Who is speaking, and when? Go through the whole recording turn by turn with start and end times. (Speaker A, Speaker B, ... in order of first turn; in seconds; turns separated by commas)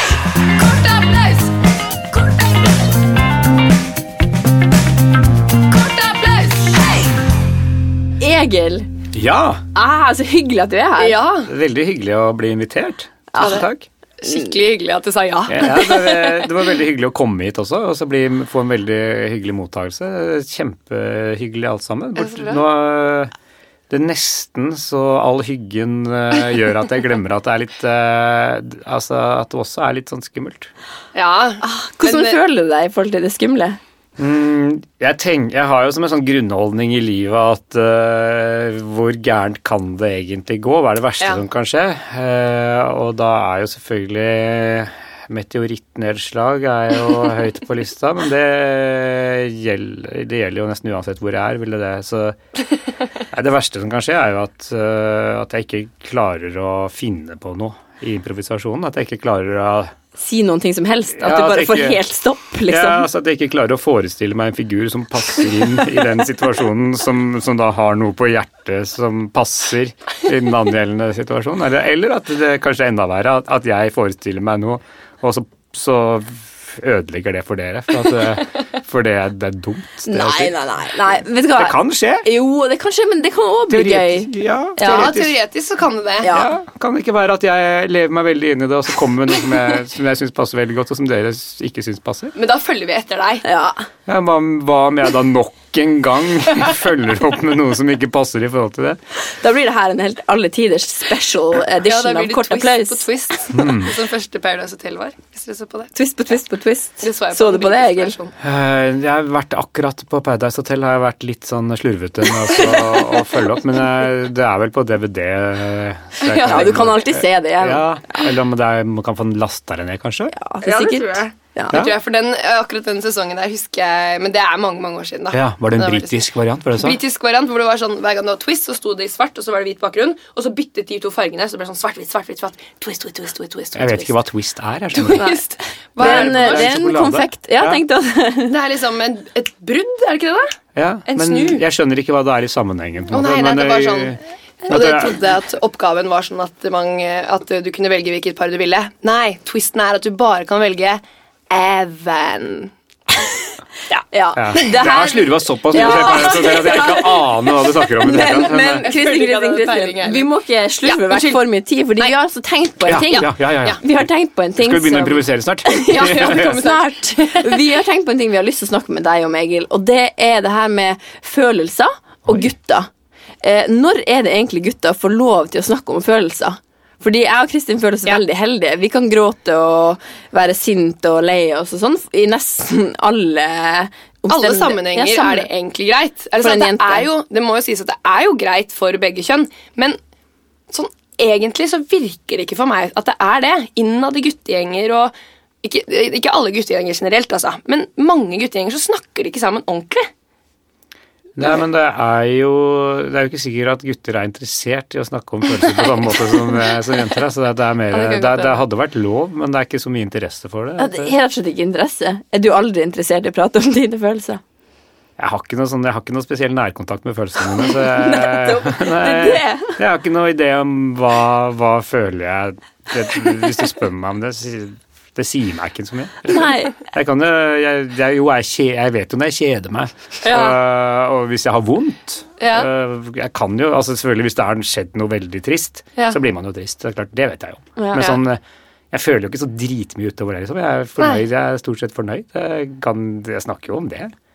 Speaker A: 0.5-1.5, Speaker A: 5.7-7.1, Speaker B: 8.2-8.9, Speaker C: 9.1-9.6, Speaker B: 9.7-11.2, Speaker A: 11.0-11.5, Speaker C: 11.4-13.8, Speaker B: 13.3-13.7, Speaker A: 13.4-13.6, Speaker A: 14.2-16.6, Speaker B: 14.2-14.5, Speaker C: 15.5-23.3, Speaker A: 22.1-22.6, Speaker C: 23.9-30.7, Speaker A: 31.1-32.4, Speaker B: 31.6-33.8, Speaker C: 34.2-52.4, Speaker C: 53.3-59.9, Speaker B: 60.2-63.1, Speaker C: 61.2-62.0, Speaker C: 62.7-80.5, Speaker B: 80.0-85.2, Speaker C: 81.6-82.2, Speaker C: 83.7-85.3, Speaker A: 84.8-86.3, Speaker B: 86.2-86.6, Speaker C: 86.3-92.3, Speaker A: 92.3-93.4, Speaker B: 93.4-93.8, Speaker C: 94.1-99.0, Speaker B: 99.4-103.1, Speaker A: 101.8-105.9, Speaker C: 103.5-103.9, Speaker B: 105.9-108.2, Speaker A: 107.0-108.3, Speaker C: 108.4-120.3, Speaker A: 112.5-113.0, Speaker A: 116.2-116.8, Speaker B: 116.2-118.2, Speaker B: 120.3-121.8, Speaker A: 120.6-134.2, Speaker C: 125.3-127.0, Speaker C: 133.7-135.2, Speaker A: 134.9-136.8, Speaker B: 135.2-135.4, Speaker B: 136.0-138.5, Speaker C: 136.0-137.8, Speaker A: 138.5-140.6, Speaker C: 140.8-145.2, Speaker A: 141.1-141.6, Speaker A: 143.1-152.7, Speaker B: 154.1-172.9, Speaker C: 154.3-158.8, Speaker A: 154.6-154.9, Speaker A: 156.0-156.5, Speaker A: 158.3-160.3, Speaker A: 160.8-161.4, Speaker C: 162.8-164.1, Speaker A: 163.0-163.8, Speaker C: 164.6-166.6, Speaker A: 165.9-167.6, Speaker B: 173.4-185.5, Speaker A: 184.3-190.0, Speaker B: 186.4-187.1, Speaker A: 190.7-200.1, Speaker C: 201.4-211.1, Speaker A: 207.9-208.6, Speaker B: 210.8-214.4, Speaker C: 215.2-238.4, Speaker B: 217.7-219.8, Speaker B: 226.2-226.8, Speaker A: 230.2-230.6, Speaker A: 232.4-232.7, Speaker B: 237.8-238.2, Speaker C: 238.9-244.1